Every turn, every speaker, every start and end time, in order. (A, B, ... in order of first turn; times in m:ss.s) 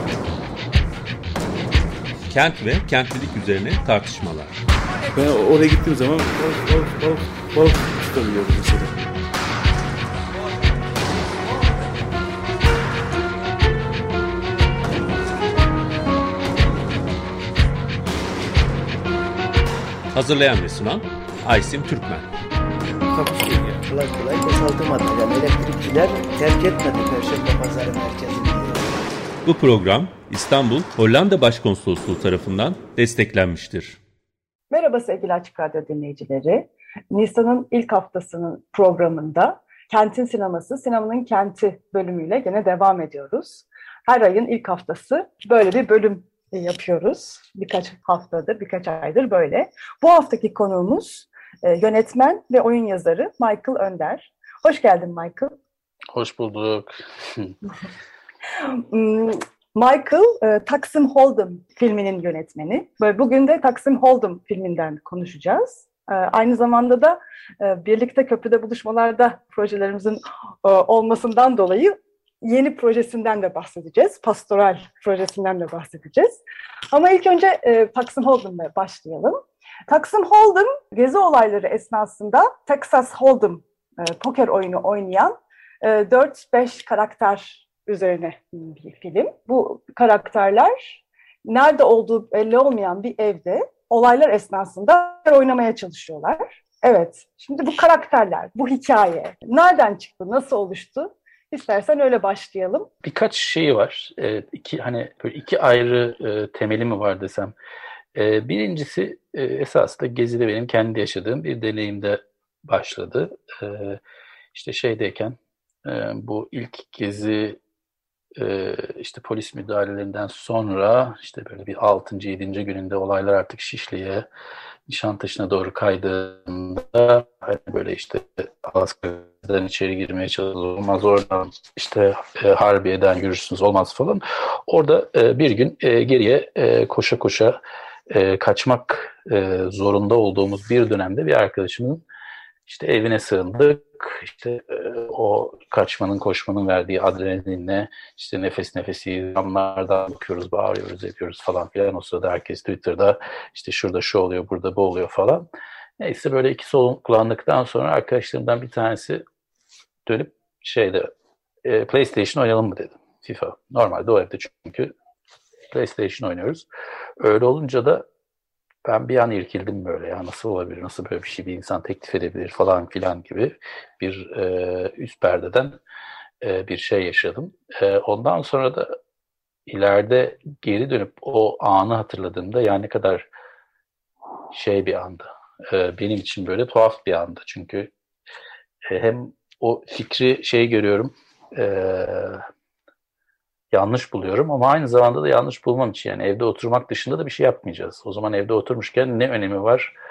0:02.3-0:04.6 A
0:05.2-0:09.0 B
0:20.1-0:22.3 A
0:23.1-0:29.0 C
0:29.4-0:34.0 A
0:34.7-0:55.5 D
0:56.1-0:57.5 E
0:58.6-1:16.4 D
1:16.9-1:42.9 D
1:43.0-1:47.5 E
1:48.1-1:54.0 E
1:54.5-1:57.6 E
1:58.4-2:04.3 E
2:04.9-2:22.0 E
2:22.7-2:35.4 E
2:36.0-2:39.2 E
2:40.0-2:41.1 E
2:41.6-2:44.9 E
2:45.7-2:46.7 E
2:47.2-2:48.0 E
2:48.8-2:55.8 E
2:56.4-2:59.0 E
2:59.7-3:03.3 E
3:04.5-3:07.9 E
3:08.9-3:12.4 E
3:13.7-3:19.9 E